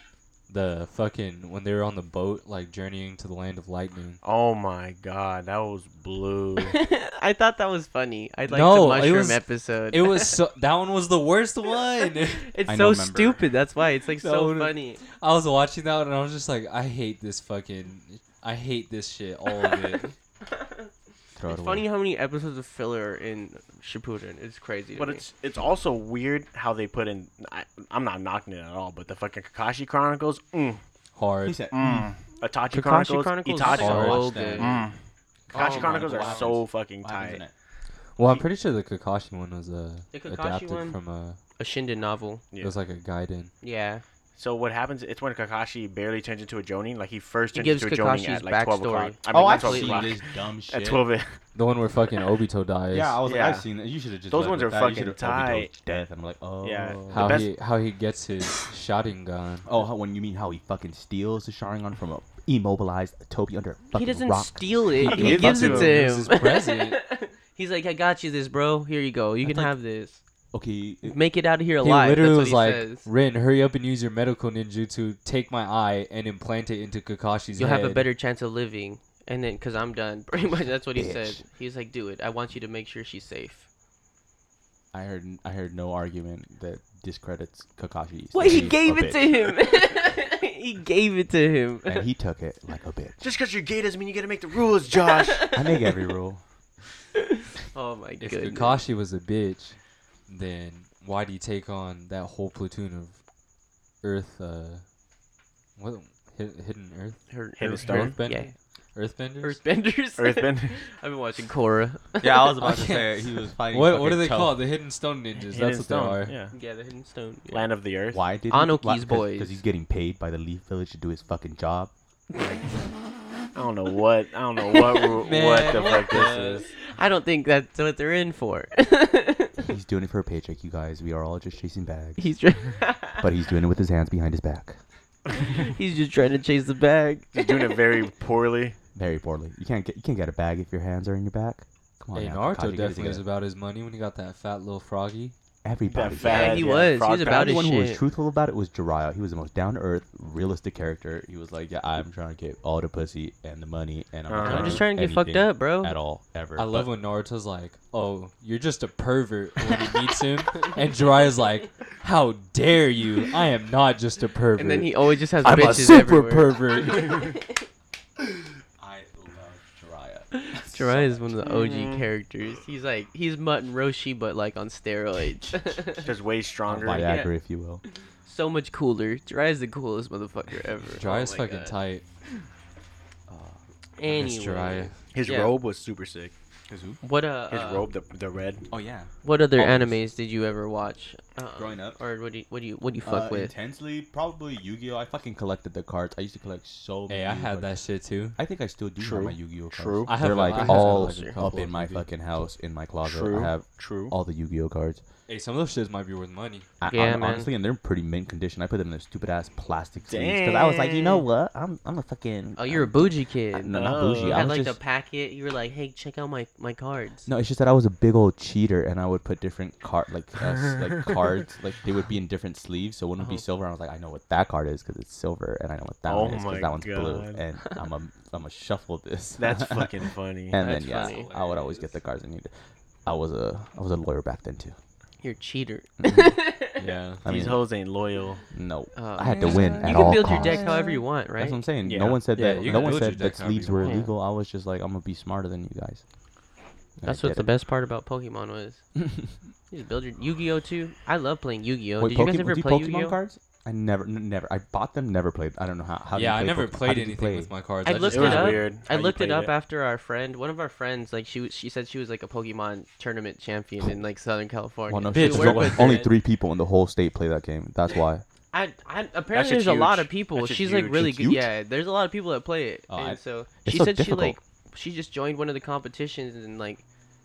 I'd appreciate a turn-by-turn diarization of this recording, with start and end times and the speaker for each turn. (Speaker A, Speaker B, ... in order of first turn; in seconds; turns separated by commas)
Speaker A: 0.5-4.2, Speaker B: 4.2-6.8, Speaker C: 6.6-10.4, Speaker A: 8.5-12.4, Speaker C: 12.4-15.0, Speaker D: 12.7-13.4, Speaker A: 14.2-20.1, Speaker C: 20.6-20.9, Speaker D: 21.4-21.9, Speaker C: 21.4-25.2, Speaker B: 24.9-30.8, Speaker A: 31.1-31.7, Speaker D: 31.4-32.1, Speaker B: 31.7-34.9, Speaker C: 32.7-34.9, Speaker A: 33.6-34.5, Speaker D: 33.8-34.9, Speaker D: 35.5-37.5, Speaker B: 35.5-37.4, Speaker C: 35.5-36.5, Speaker A: 38.1-41.4, Speaker C: 40.1-41.0, Speaker C: 41.6-42.5, Speaker A: 42.6-43.5, Speaker C: 43.6-44.0, Speaker B: 44.4-51.4, Speaker C: 47.5-50.2, Speaker D: 49.3-51.0, Speaker A: 51.5-53.1, Speaker D: 52.9-57.5, Speaker B: 53.2-53.7, Speaker B: 54.3-55.7, Speaker B: 56.6-57.5, Speaker A: 57.1-59.7, Speaker D: 59.6-65.9, Speaker C: 63.9-70.2, Speaker A: 65.0-67.0, Speaker B: 65.0-66.0, Speaker D: 70.5-71.2, Speaker C: 71.0-73.1, Speaker A: 71.8-78.0, Speaker C: 77.6-83.6, Speaker D: 80.9-81.4, Speaker D: 84.9-89.4, Speaker C: 88.3-92.1, Speaker D: 91.9-93.2, Speaker B: 93.2-95.6, Speaker C: 95.0-95.9, Speaker D: 95.5-96.4, Speaker C: 97.2-98.8, Speaker A: 98.2-103.2, Speaker A: 104.0-104.8, Speaker A: 105.8-109.6, Speaker C: 107.3-108.5, Speaker B: 107.6-108.2, Speaker C: 109.4-112.5, Speaker B: 110.2-110.8, Speaker D: 112.2-114.6, Speaker A: 112.6-116.4, Speaker B: 115.5-116.5, Speaker C: 116.5-117.7, Speaker B: 117.5-118.2, Speaker D: 118.1-121.9, Speaker C: 118.5-119.6, Speaker B: 123.5-126.7, Speaker C: 124.7-125.0, Speaker A: 125.2-126.7, Speaker C: 126.6-129.6, Speaker D: 129.6-132.3, Speaker C: 132.2-133.2, Speaker D: 133.2-134.8, Speaker C: 135.4-137.8, Speaker B: 137.3-138.8, Speaker D: 138.9-143.2, Speaker A: 142.1-145.3, Speaker D: 145.6-156.9, Speaker B: 145.9-147.7, Speaker C: 146.2-148.0, Speaker B: 154.3-154.9, Speaker C: 154.4-155.9, Speaker A: 156.6-167.3, Speaker C: 164.6-167.6, Speaker D: 165.4-166.4, Speaker D: 168.8-171.2, Speaker C: 170.3-176.1, Speaker B: 171.4-172.1, Speaker B: 176.0-177.1, Speaker D: 176.7-177.8, Speaker C: 177.0-177.3, Speaker C: 178.2-181.7, Speaker A: 181.0-182.1, Speaker D: 183.3-183.6, Speaker C: 184.0-185.6, Speaker A: 184.1-184.9, Speaker B: 185.1-186.3, Speaker D: 186.7-187.0, Speaker C: 187.0-187.9, Speaker B: 187.5-188.7, Speaker D: 188.7-190.0, Speaker C: 189.2-193.5, Speaker D: 191.6-192.0, Speaker D: 193.0-197.7, Speaker A: 197.1-198.4, Speaker D: 198.4-205.0, Speaker B: 199.0-200.2, Speaker A: 200.1-202.1, Speaker C: 200.5-201.4, Speaker B: 203.0-204.1, Speaker A: 205.3-206.7, Speaker D: 206.8-214.8, Speaker C: 206.9-207.5, Speaker B: 210.1-211.2, Speaker C: 212.6-217.3, Speaker B: 213.7-214.5, Speaker D: 217.2-232.5, Speaker B: 226.1-227.4, Speaker B: 229.4-230.6, Speaker C: 230.6-231.3, Speaker A: 230.7-231.9, Speaker D: 233.1-234.8, Speaker C: 235.2-236.8, Speaker D: 236.0-236.4, Speaker A: 236.8-237.2, Speaker D: 237.2-237.6, Speaker B: 237.2-238.4, Speaker D: 238.5-246.0, Speaker C: 238.9-241.6, Speaker B: 239.8-240.8, Speaker B: 241.8-242.9, Speaker A: 242.3-244.0, Speaker C: 243.8-244.1, Speaker D: 247.0-247.5, Speaker C: 247.0-248.9, Speaker D: 249.0-249.4, Speaker C: 249.7-253.2, Speaker D: 252.0-257.5, Speaker A: 256.1-258.6, Speaker C: 257.9-266.1, Speaker B: 258.0-259.5, Speaker D: 264.9-268.2, Speaker A: 265.1-266.1, Speaker C: 268.5-276.8, Speaker B: 269.3-271.1, Speaker D: 270.9-271.5, Speaker D: 272.9-274.4